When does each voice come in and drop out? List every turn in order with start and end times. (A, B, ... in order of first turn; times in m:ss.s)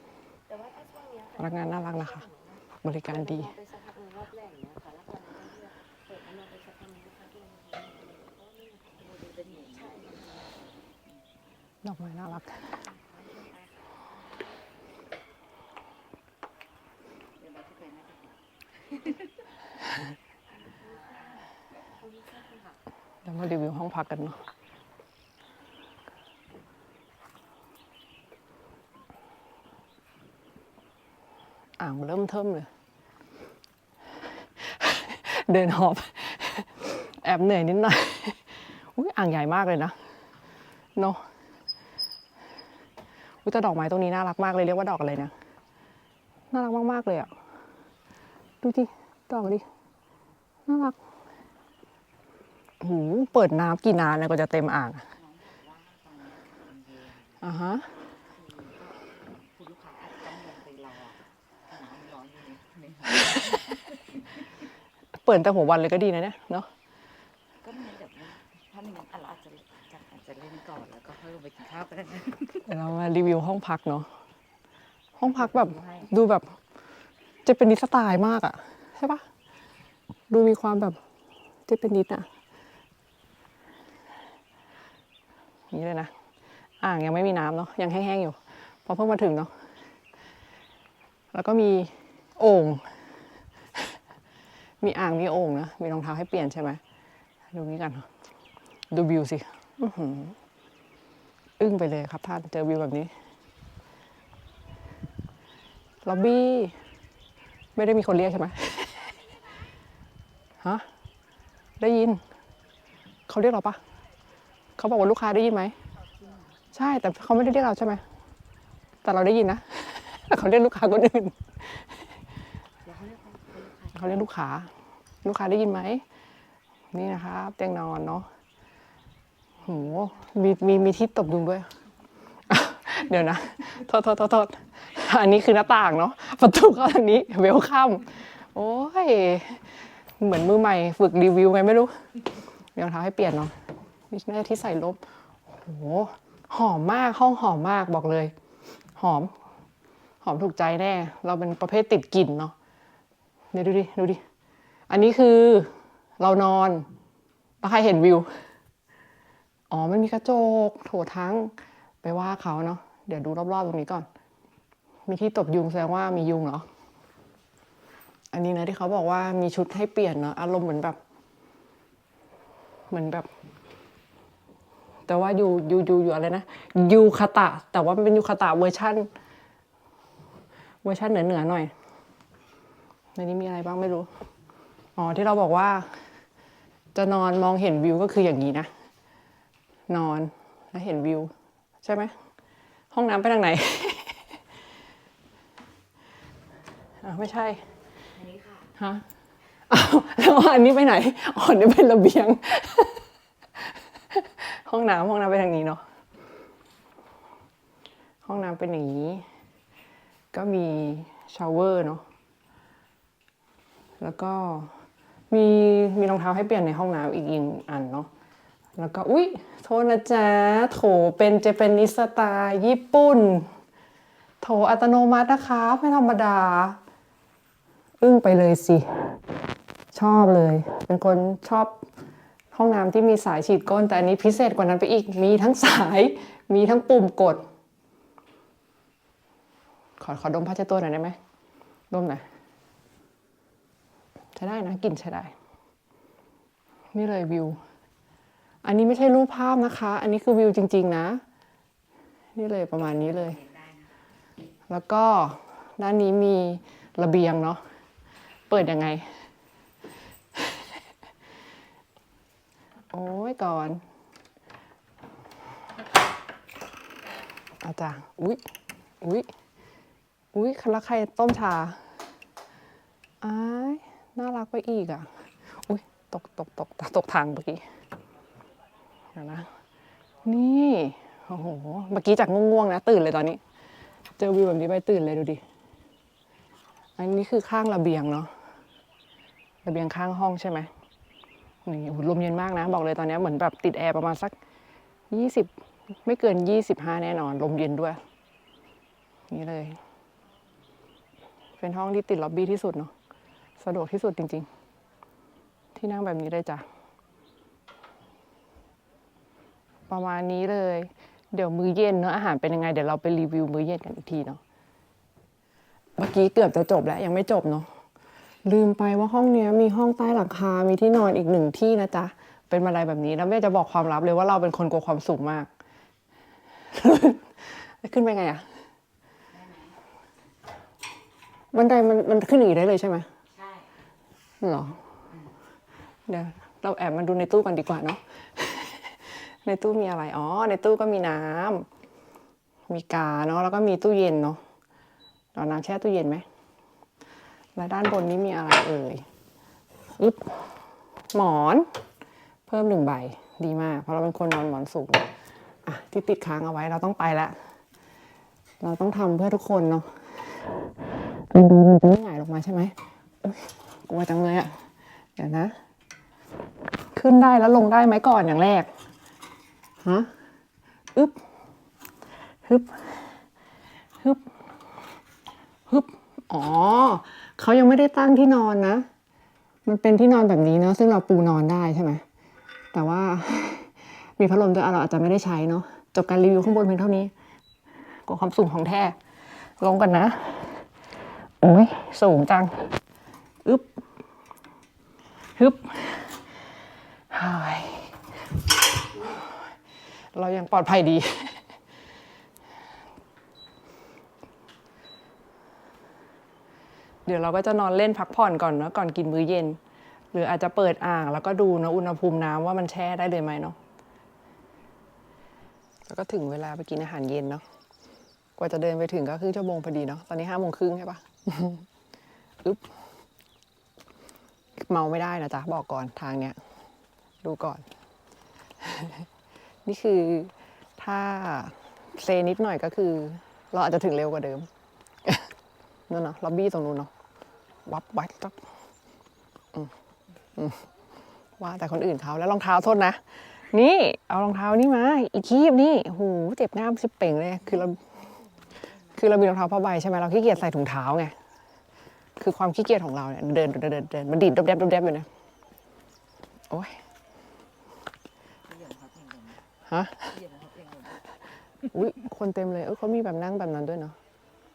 0:00.5-0:10.6 A
0:01.4-0:02.3 B
0:02.8-0:03.5 B
0:09.1-0:10.0 C
0:11.8-0:12.7 B
0:13.0-0:14.0 C
0:17.4-0:19.3 C
0:20.6-0:22.8 A
0:23.2-0:24.4 B
0:31.8-0:32.7 B
0:34.6-0:38.4 B
0:38.9-0:40.0 B
0:41.0-0:41.2 B
0:43.4-0:45.3 B
0:46.5-0:47.3 B
0:48.6-0:49.7 B
0:50.7-0:51.0 B
0:52.8-0:55.0 B
0:55.1-0:57.4 C
0:57.4-0:57.9 B
0:58.1-1:04.5 C
1:05.2-1:06.7 B
1:07.6-1:12.7 C
1:12.7-1:14.1 B
1:15.2-1:16.6 B
1:15.2-1:16.1 C
1:17.4-1:19.2 B
1:20.3-1:21.0 B
1:21.7-1:22.3 B
1:25.7-1:26.1 B
1:26.8-1:29.5 B
1:31.3-1:32.9 B
1:34.8-1:36.8 B
1:37.5-1:38.1 B
1:38.9-1:40.4 B
1:41.6-1:43.1 B
1:46.0-1:46.8 B
1:47.8-1:49.1 B
1:51.8-1:52.2 B
1:53.3-1:53.8 B
1:54.8-1:55.8 B
1:56.2-1:56.6 C
1:56.7-1:58.0 B
1:59.0-2:01.9 B
2:02.8-2:04.2 C
2:03.9-2:04.7 B
2:05.2-2:06.0 B
2:06.9-2:08.3 B
2:09.6-2:10.7 C
2:09.7-2:11.7 B
2:12.5-2:22.0 B
2:22.8-2:23.5 B
2:24.1-2:28.3 B
2:29.0-2:29.3 B
2:30.2-2:32.5 B
2:33.5-2:34.2 B
2:34.9-2:36.9 B
2:37.6-2:38.3 B
2:39.7-2:44.1 B
2:45.1-2:46.7 B
2:48.3-2:51.0 B
2:52.9-2:53.3 B
2:55.1-2:59.1 B
3:00.8-3:01.7 B
3:03.2-3:04.1 B
3:05.0-3:06.0 B
3:06.9-3:08.7 B
3:09.9-3:12.2 B
3:12.9-3:14.3 B
3:17.0-3:17.6 B
3:18.1-3:18.7 C
3:18.8-3:19.0 B
3:19.7-3:23.0 B
3:24.1-3:25.8 B
3:28.2-3:29.2 B
3:30.3-3:32.0 B
3:34.0-3:34.7 B
3:35.3-3:38.1 B
3:38.8-3:43.5 B
3:44.4-3:46.8 B
3:48.0-3:49.1 B
3:49.9-3:51.8 B
3:52.5-3:57.4 B
4:00.0-4:01.2 B
4:01.9-4:02.2 B
4:04.4-4:05.3 B
4:06.9-4:07.6 B
4:08.6-4:11.2 B
4:12.4-4:13.4 B
4:13.0-4:13.9 C
4:14.7-4:17.6 B
4:18.5-4:19.1 B
4:22.9-4:23.8 B
4:27.6-4:28.4 B
4:29.0-4:29.3 B
4:30.3-4:31.8 B
4:33.2-4:35.1 B
4:35.6-4:37.6 B
4:39.1-4:39.5 B
4:40.2-4:43.4 B
4:44.2-4:45.4 B
4:47.0-4:48.3 B
4:49.6-4:50.7 B
4:51.7-4:54.4 B
4:55.1-4:55.5 B
4:56.0-4:58.0 B
4:59.3-4:59.8 B
5:01.6-5:02.9 B
5:03.6-5:04.5 B
5:05.8-5:06.6 B
5:09.9-5:14.4 B
5:16.0-5:17.7 B
5:18.4-5:25.5 B
5:26.7-5:28.4 B
5:29.3-5:29.8 C
5:31.5-5:33.1 B
5:33.3-5:33.7 C
5:34.4-5:34.8 B
5:35.1-5:35.4 C
5:36.1-5:41.7 B
5:42.7-5:44.4 B
5:45.4-5:46.2 B
5:47.6-5:49.0 B
5:50.0-5:50.6 B
5:51.1-5:51.7 B
5:52.5-5:55.1 B
5:55.7-5:57.4 B
5:58.6-5:59.9 B
6:01.3-6:04.6 B
6:05.2-6:05.6 B
6:06.9-6:08.7 B
6:09.8-6:10.1 B
6:11.0-6:11.2 B
6:12.5-6:13.1 B
6:14.0-6:14.2 B
6:15.7-6:18.9 B
6:19.6-6:22.0 B
6:22.7-6:27.1 B
6:28.1-6:29.0 B
6:29.6-6:30.6 B
6:31.4-6:32.7 B
6:33.4-6:33.7 B
6:35.4-6:36.3 B
6:37.1-6:38.0 B
6:38.9-6:39.3 B
6:40.1-6:41.4 B
6:47.1-6:49.6 B
6:50.1-6:53.6 B
6:55.9-6:57.4 B
6:58.4-7:01.7 B
7:04.6-7:06.4 B
7:07.2-7:07.6 B
7:08.6-7:09.0 B
7:09.7-7:14.5 B
7:15.9-7:16.9 B
7:17.7-7:18.4 B
7:20.4-7:20.6 B
7:21.4-7:23.0 B
7:23.5-7:27.8 B
7:27.4-7:29.0 C
7:29.0-7:31.2 B
7:32.2-7:35.1 B
7:36.5-7:36.8 B
7:38.5-7:39.4 C
7:39.7-7:40.1 B
7:40.1-7:41.2 C
7:41.7-7:44.0 B